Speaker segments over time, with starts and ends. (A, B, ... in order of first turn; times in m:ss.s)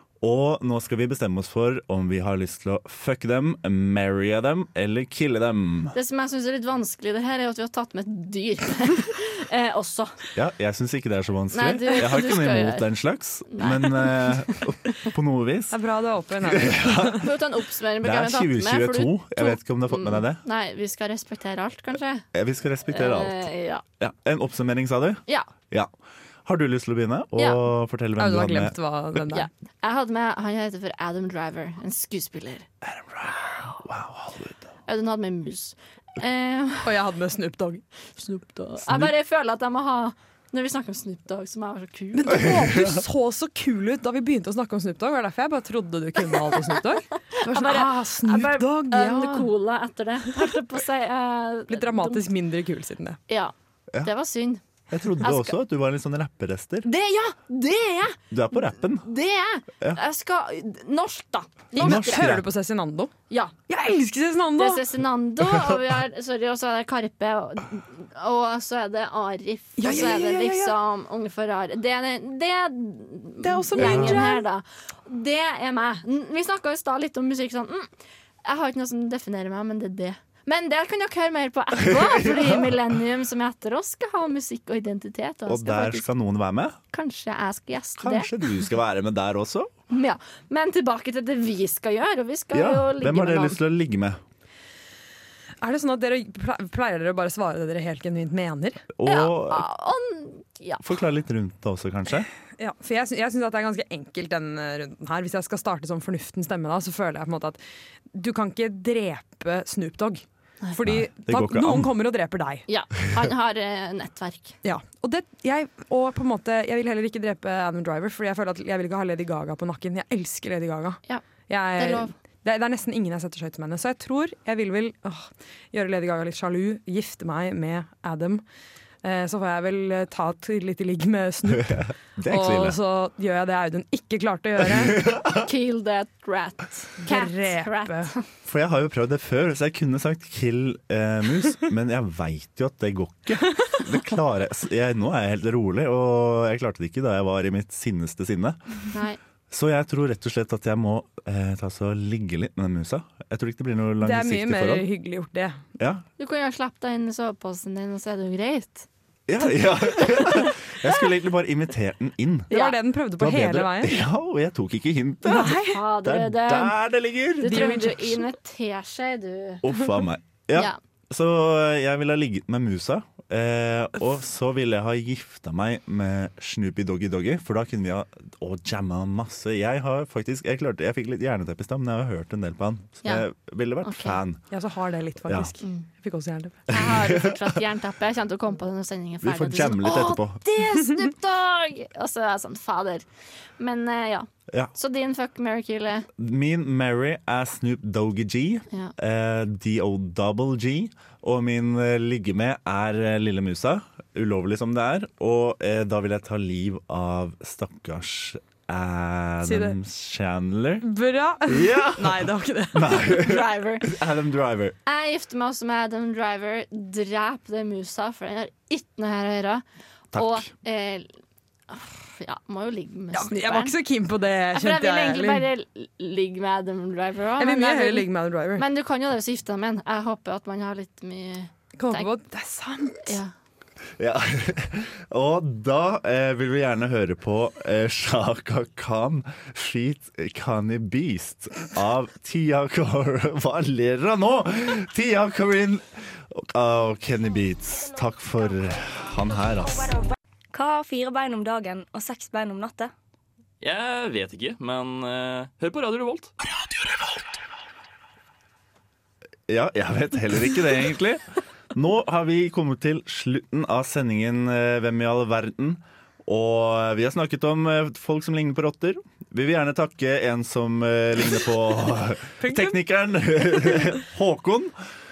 0:00.2-0:06.0 A
0:05.9-0:10.3 B
0:10.4-0:15.8 A
0:11.5-0:12.9 B
0:13.5-0:15.1 B
0:15.7-0:17.2 C
0:16.4-0:17.3 A
0:17.2-0:22.3 B
0:18.0-0:20.4 A
0:22.3-0:23.5 A
0:22.9-0:23.8 B
0:24.0-0:25.9 A
0:26.4-0:28.8 A
0:27.4-0:27.6 B
0:28.2-0:29.5 C
0:29.3-0:32.7 B
0:32.8-0:34.6 A
0:34.9-0:36.9 B
0:36.8-0:37.8 C
0:38.2-0:42.7 B
0:42.1-0:49.5 C
0:47.3-0:52.2 B
0:51.7-0:53.2 C
0:53.3-0:54.6 B
0:54.9-0:56.9 A
0:55.2-0:55.6 B
0:56.8-1:02.3 B
0:58.3-0:59.1 A
1:01.7-1:03.1 C
1:01.8-1:02.4 A
1:03.7-1:04.8 C
1:04.6-1:17.9 B
1:09.8-1:10.8 C
1:13.4-1:14.4 C
1:13.8-1:14.3 A
1:18.4-1:26.1 B
1:21.8-1:22.8 A
1:25.5-1:26.8 A
1:26.9-1:28.4 B
1:28.0-1:29.7 A
1:29.9-1:33.6 B
1:32.5-1:34.2 A
1:35.6-1:38.9 C
1:39.0-1:39.6 A
1:39.1-1:40.8 B
1:40.8-1:42.3 A
1:42.6-1:47.6 C
1:48.1-1:52.7 C
1:50.8-1:51.9 A
1:52.7-1:54.6 B
1:54.6-2:08.4 C
2:01.8-2:02.1 B
2:09.0-2:15.0 C
2:11.5-2:12.8 A
2:14.7-2:15.4 A
2:15.4-2:18.2 B
2:17.0-2:18.1 C
2:18.4-2:28.6 A
2:28.9-2:29.2 B
2:29.5-2:34.9 A
2:34.0-2:35.6 C
2:35.8-2:36.0 A
2:36.2-2:38.9 B
2:39.3-2:47.6 A
2:40.0-2:40.5 B
2:42.5-2:44.0 C
2:45.3-2:45.8 C
2:45.3-2:46.8 B
2:47.4-2:49.6 B
2:47.4-2:48.2 C
2:49.6-3:04.4 A
3:03.8-3:04.2 B
3:04.5-3:06.7 C
3:06.7-3:13.1 B
3:06.7-3:07.6 A
3:09.2-3:10.4 A
3:13.6-3:16.1 B
3:16.2-3:30.9 A
3:29.4-3:29.8 C
3:30.8-3:33.0 C
3:31.5-3:34.8 A
3:33.0-3:34.0 B
3:34.9-3:41.1 B
3:40.1-3:40.5 A
3:41.7-3:43.8 B
3:43.1-3:45.5 C
3:44.5-3:52.1 B
3:47.4-3:48.6 C
3:51.8-3:53.2 C
3:53.0-3:53.3 B
3:54.0-4:09.9 A
4:09.7-4:10.0 D
4:10.5-4:12.9 D
4:13.6-4:16.3 E
4:19.5-4:34.7 A
4:32.4-4:32.8 C